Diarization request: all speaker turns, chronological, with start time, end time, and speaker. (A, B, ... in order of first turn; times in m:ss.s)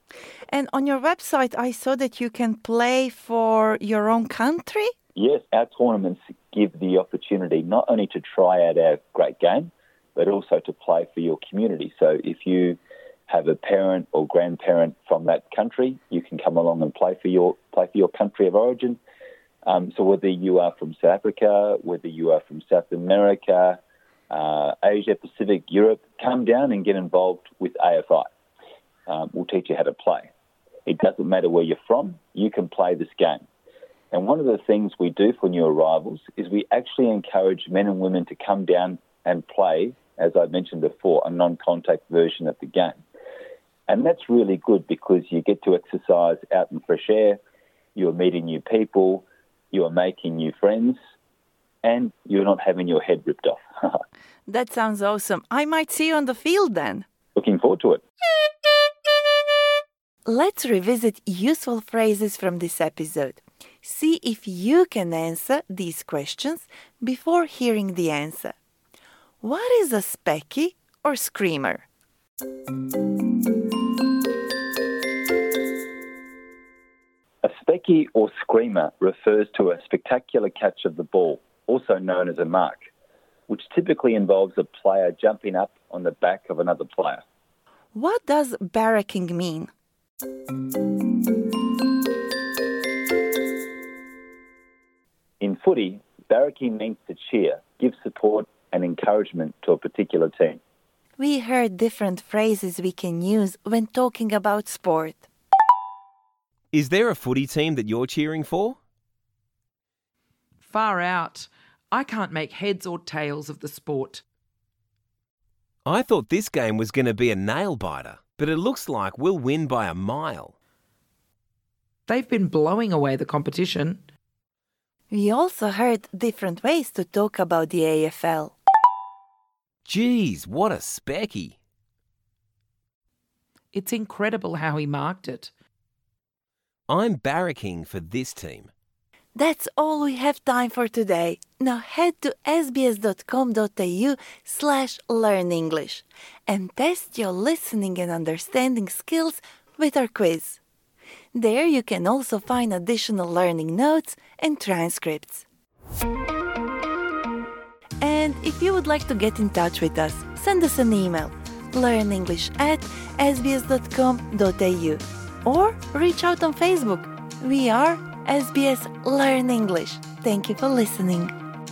0:00.5-0:04.9 A
0:05.2-0:19.0 B
0:19.6-0:23.8 B
0:24.3-0:28.3 B
0:29.1-0:30.3 B
0:30.9-0:33.4 B
0:34.1-0:43.0 B
0:43.9-0:47.4 B
0:48.0-0:51.0 B
0:51.8-0:54.0 B
0:54.5-0:57.0 A
0:57.4-0:58.0 B
1:00.2-1:08.6 A
1:09.4-1:11.8 A
1:17.4-1:22.8 B
1:23.5-1:27.2 B
1:27.9-1:29.7 A
1:35.4-1:40.6 B
1:41.2-1:45.3 A
1:46.7-1:48.8 C
1:50.6-1:54.2 D
1:55.8-2:00.5 C
2:02.1-2:04.0 D
2:05.1-2:08.6 A
2:09.8-2:11.6 C
2:13.7-2:15.5 D
2:16.9-2:18.7 C
2:19.4-2:30.6 A
2:31.3-2:35.4 A
2:38.0-2:51.3 A